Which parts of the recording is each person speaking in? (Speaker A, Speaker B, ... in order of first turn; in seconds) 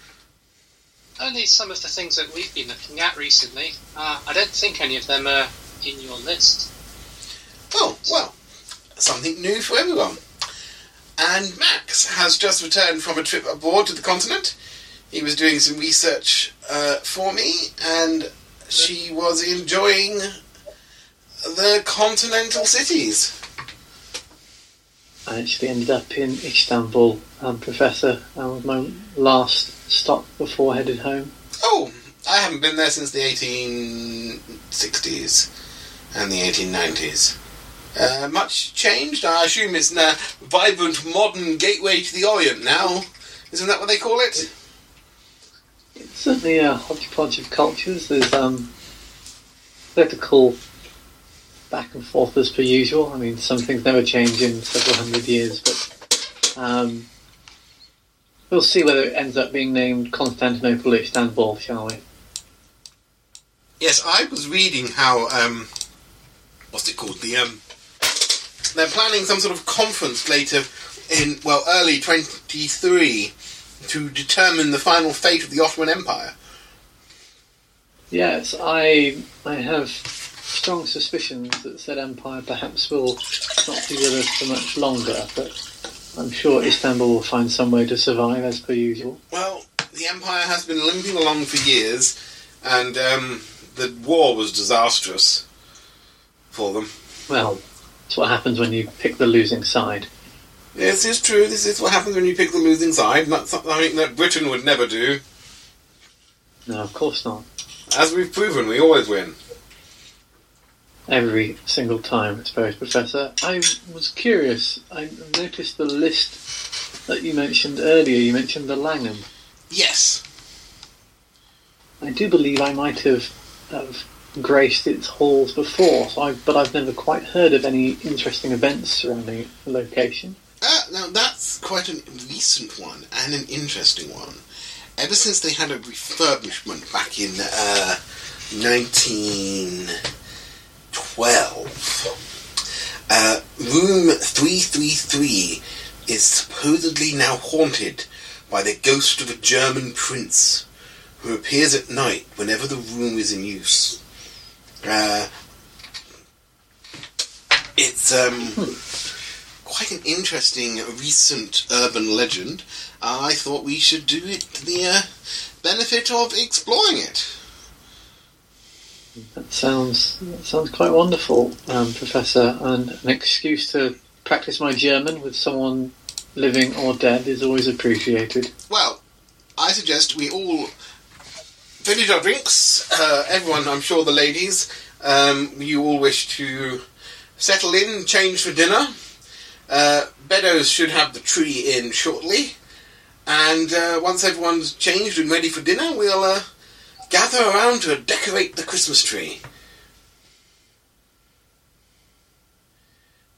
Speaker A: 1.2-6.7
Speaker B: 7.7-8.3, 9.0-10.2, 11.2-14.5, 15.1-20.3, 21.4-23.3, 31.6-35.5, 36.1-37.4, 37.9-44.5, 63.8-65.7, 66.7-67.6, 68.7-76.3, 89.3-95.4, 96.5-96.9, 100.7-105.2, 107.9-109.3, 119.7-120.2, 130.6-134.4, 135.0-138.0, 138.5-140.0, 140.9-142.1, 143.1-150.6, 151.2-154.0, 154.8-155.3, 157.8-158.7, 159.6-165.1, 165.6-167.3, 178.7-179.0, 179.6-180.7, 181.8-186.8, 187.4-188.9, 189.7-192.6, 193.2-196.4, 197.1-199.4
Speaker C: 25.3-31.3, 46.0-48.7, 49.9-50.6, 51.7-55.9, 56.5-57.1, 58.5-62.0, 78.1-85.5, 86.1-89.2, 97.3-100.1, 106.7-107.5, 111.1-116.4, 117.1-119.3, 122.0-130.4, 169.2-178.5